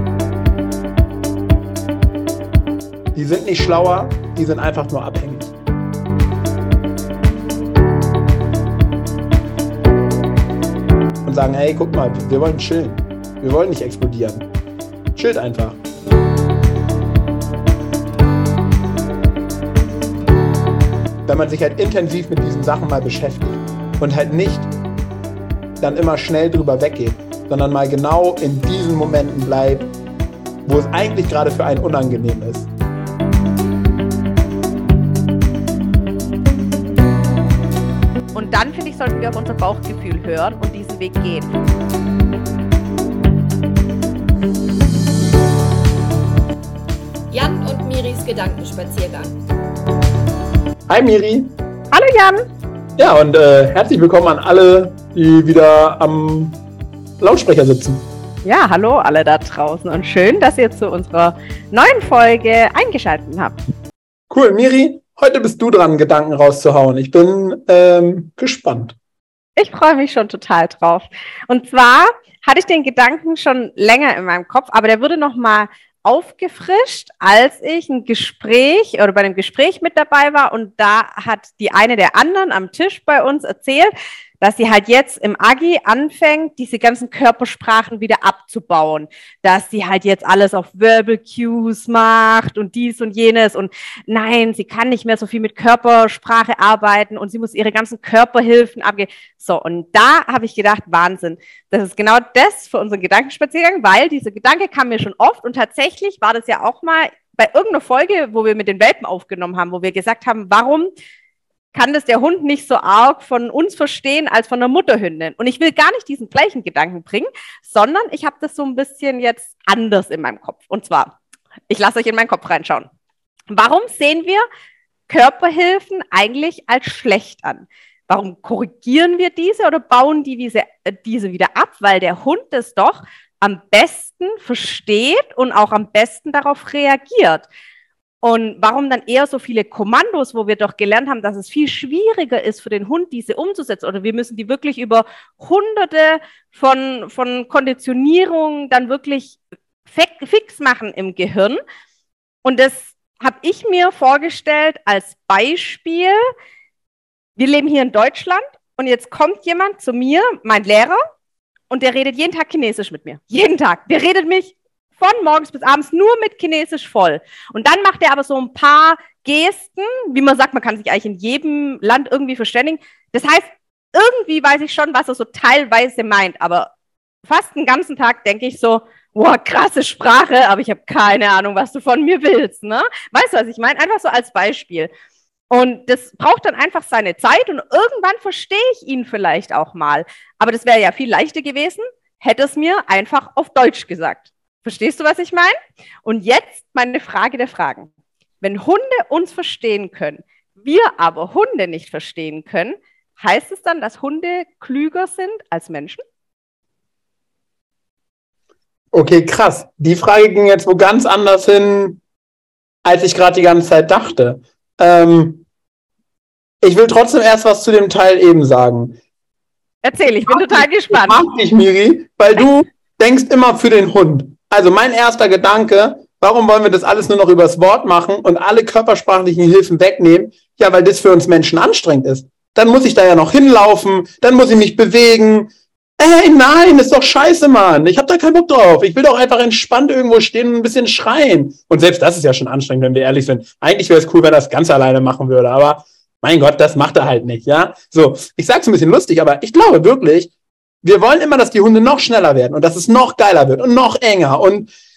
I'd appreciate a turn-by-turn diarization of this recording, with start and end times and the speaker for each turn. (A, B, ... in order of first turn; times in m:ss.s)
0:03.1-0:05.5 A
0:11.2-0:14.4 A
0:15.1-0:15.8 A
0:21.2-0:24.7 A
0:25.8-0:29.9 A
0:30.6-0:32.7 A
0:38.3-0:41.6 B
0:47.3-0:49.3 C
0:50.9-0:51.5 A
0:51.9-0:52.4 B
0:53.0-0:56.6 A
0:57.2-0:58.0 A
0:58.4-1:03.6 B
1:04.3-1:09.0 A
1:09.6-1:50.9 B
1:51.7-2:01.1 B
2:01.7-2:02.9 B
2:03.5-2:04.4 B
2:05.1-2:17.5 B
2:18.2-2:31.6 B
2:32.4-2:36.2 B
2:37.4-2:41.0 B
2:41.7-2:56.7 B
2:57.2-3:04.9 B
3:05.5-3:17.9 B
3:18.4-3:26.0 B
3:28.9-3:32.0 A
3:32.8-3:35.4 A
3:36.6-3:39.0 A
3:39.8-3:41.2 B
3:40.3-4:10.3 A
4:10.8-4:14.7 A